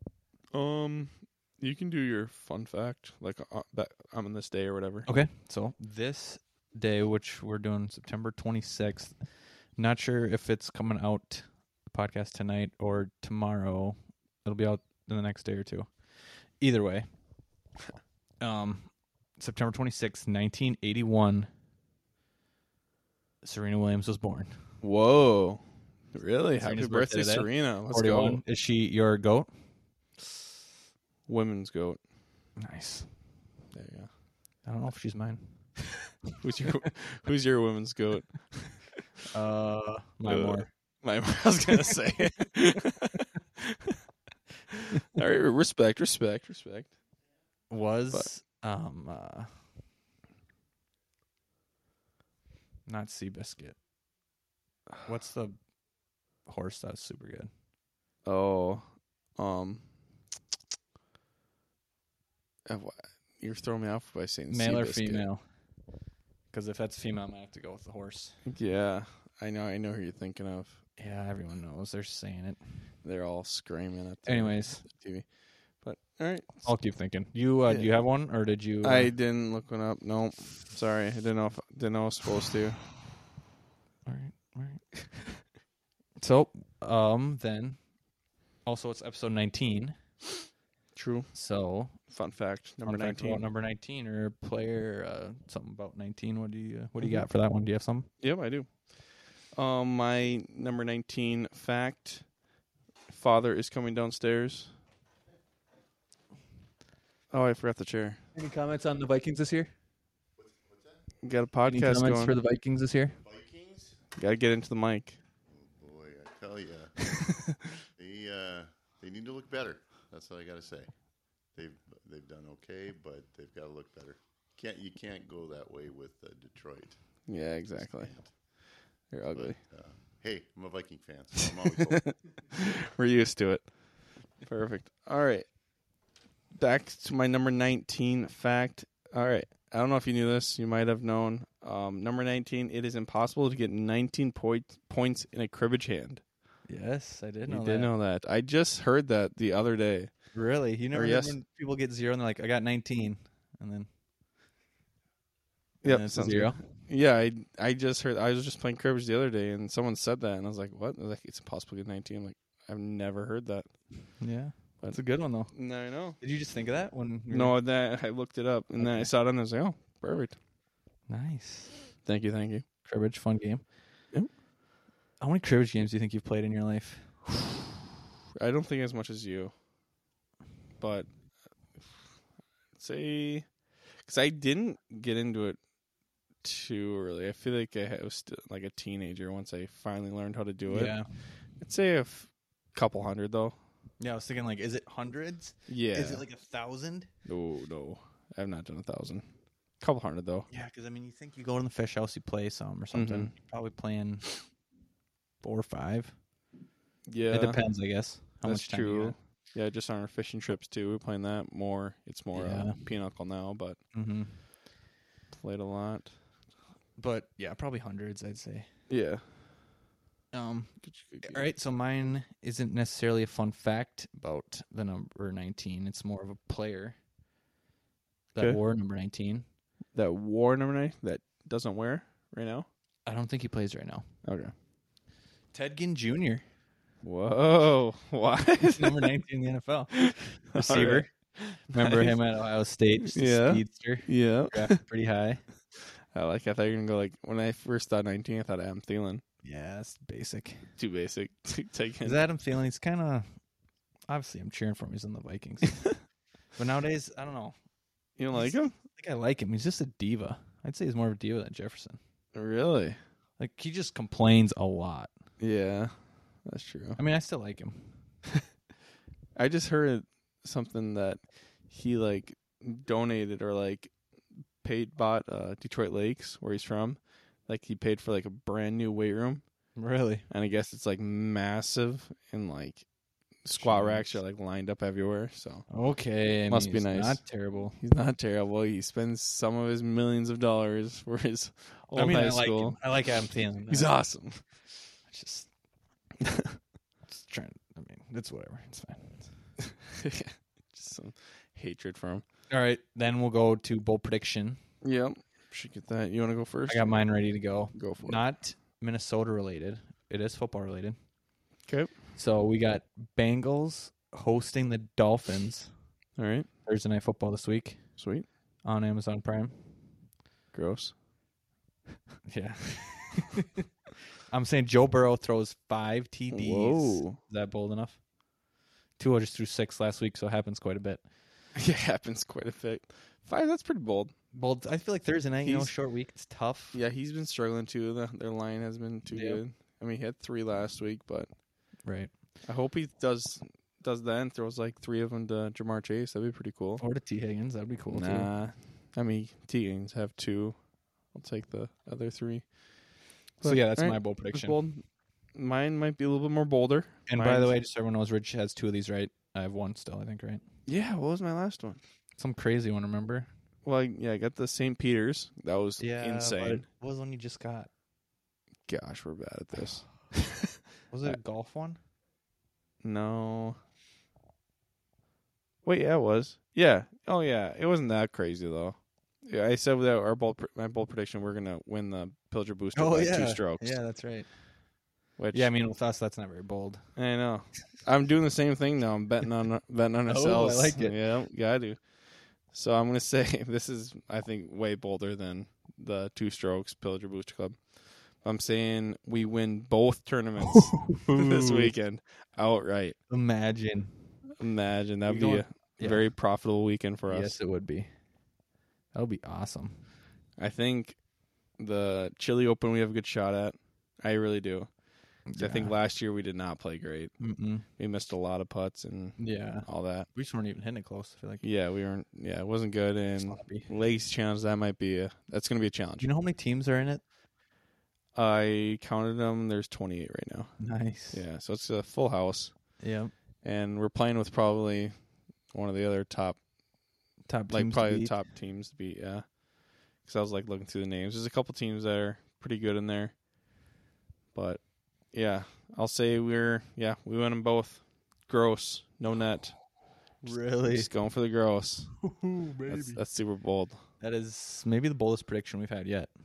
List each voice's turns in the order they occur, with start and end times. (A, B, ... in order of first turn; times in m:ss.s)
0:00.5-0:05.1 A
0:05.0-0:17.1 B
0:18.4-0:21.5 B
0:23.4-0:24.5 B
0:24.8-0:28.4 A
0:26.6-0:29.5 B
0:31.3-0:32.0 A
0:32.6-0:33.2 B
0:33.7-0:34.1 A
0:34.6-0:35.9 B
0:36.4-0:38.9 A
0:39.3-0:40.7 B
0:40.2-0:44.0 A
0:45.1-0:47.0 A
0:47.7-0:49.7 B
0:52.8-0:53.8 B
0:55.0-0:55.7 B
0:56.4-0:57.5 B
0:58.2-0:59.9 A
1:02.6-1:05.3 A
1:04.5-1:05.5 B
1:06.5-1:08.4 B
1:08.4-1:10.8 A
1:11.0-1:12.6 B
1:13.0-1:16.9 A
1:14.2-1:14.8 B
1:16.6-1:19.1 B
1:17.7-1:22.9 A
1:24.0-1:25.0 B
1:26.2-1:27.9 B
1:28.6-1:30.0 B
1:30.9-1:31.3 A
1:31.3-1:32.1 B
1:31.9-1:33.4 A
1:32.8-1:38.1 B
1:37.0-1:37.3 A
1:38.2-1:42.4 A
1:43.1-1:44.7 A
1:47.3-1:48.2 A
1:48.3-1:49.7 B
1:50.4-1:51.1 C
1:51.2-1:52.3 A
1:51.6-1:53.2 B
1:53.2-1:54.0 C
1:54.2-1:55.2 A
1:55.4-2:08.4 C
2:07.3-2:08.5 A
2:09.1-2:09.6 A
2:09.3-2:12.4 C
2:11.9-2:15.6 A
2:16.5-2:26.2 A
2:26.7-2:27.9 B
2:27.5-2:30.3 A
2:30.3-2:33.9 B
2:30.9-2:31.4 A
2:35.8-2:44.2 A
2:35.8-2:36.6 B
2:44.2-2:47.6 B
2:44.8-2:46.2 A
2:47.3-2:50.4 A
2:48.8-2:49.1 B
2:51.1-2:51.9 B
2:52.0-2:52.6 A
2:52.8-2:53.6 B
2:55.2-2:57.2 B
2:58.4-2:59.5 A
3:00.8-3:01.2 A
3:01.7-3:02.0 A
3:02.7-3:05.6 A
3:06.4-3:13.5 A
3:10.6-3:11.1 B
3:14.0-3:17.1 B
3:15.7-3:16.2 A
3:17.2-3:20.5 A
3:20.5-3:24.6 B
3:22.9-3:23.3 A
3:25.4-3:26.2 B
3:27.0-3:27.8 A
3:27.3-3:29.2 B
3:28.4-3:33.8 A
3:32.3-3:32.9 B
3:33.9-3:34.4 B
3:35.3-3:36.1 A
3:37.0-3:38.7 B
3:38.9-3:39.2 A
3:40.3-3:47.0 B
3:40.8-3:41.5 A
3:48.3-3:49.4 B
3:49.9-3:52.6 A
3:53.0-3:54.0 B
3:54.2-3:54.5 A
3:55.5-3:56.4 B
3:57.0-3:59.1 A
3:58.6-4:05.4 B
4:00.5-4:02.2 A
4:03.0-4:04.8 A
4:05.8-4:09.2 A
4:09.4-4:10.7 B
4:10.8-4:12.2 A
4:12.0-4:13.4 B
4:14.1-4:17.6 B
4:18.2-4:18.7 A
4:18.3-4:22.0 B
4:22.3-4:23.0 A
4:23.4-4:25.1 B
4:25.4-4:27.0 A
4:27.0-4:28.0 B
4:29.3-4:34.0 A
4:34.6-4:39.4 A
4:39.8-4:40.3 B
4:40.3-4:42.9 A
4:43.4-4:45.7 A
4:43.5-4:44.1 B
4:45.7-4:47.8 B
4:46.4-4:52.8 A
4:51.9-4:53.9 B
4:53.7-4:54.4 A
4:55.0-4:55.5 B
4:57.1-4:59.5 B
4:59.9-5:02.2 A
5:02.5-5:04.6 B
5:04.8-5:07.1 A
5:06.7-5:11.0 B
5:07.7-5:08.3 A
5:11.6-5:12.0 A
5:12.1-5:15.7 B
5:16.2-5:16.5 A
5:16.6-5:18.0 B
5:18.0-5:18.2 A
5:18.6-5:19.7 B
5:20.5-5:21.0 A
5:22.3-5:23.5 B
5:24.3-5:28.0 B
5:26.3-5:27.2 A
5:29.0-5:31.0 B
5:31.5-5:34.1 A
5:34.3-5:36.8 B
5:35.4-5:35.7 A
5:36.7-5:41.3 A
5:39.1-5:39.4 B
5:41.8-5:42.1 B
5:42.4-5:46.8 A
5:46.8-5:48.3 B
5:47.9-5:57.6 A
5:53.4-5:54.6 B
5:57.1-6:00.4 B
6:00.6-6:01.8 A
6:02.2-6:03.3 B
6:03.6-6:06.6 A
6:05.8-6:07.7 B
6:08.7-6:10.4 A
6:10.9-6:11.8 B
6:12.8-6:13.6 A
6:15.6-6:23.8 A
6:22.7-6:24.4 B
6:25.2-6:25.6 A
6:25.3-6:26.9 B
6:27.0-6:43.0 A
6:30.1-6:31.0 B
6:40.9-6:41.7 B
6:43.1-6:44.3 B
6:44.4-6:47.4 A
6:45.0-6:46.2 B
6:47.0-6:47.9 B
6:48.9-6:49.9 B
6:50.4-7:00.1 A
6:55.2-6:55.8 B
6:57.2-6:57.6 B
6:59.2-7:01.4 B
7:01.4-7:06.1 A
7:03.3-7:03.7 B
7:06.0-7:07.0 B
7:08.1-7:12.9 A
7:10.6-7:11.2 B
7:12.8-7:13.1 B
7:13.4-7:16.4 A
7:17.2-7:18.2 B
7:17.5-7:23.2 A
7:24.3-7:33.8 A
7:30.2-7:30.9 B
7:32.0-7:33.0 B
7:34.0-7:36.1 B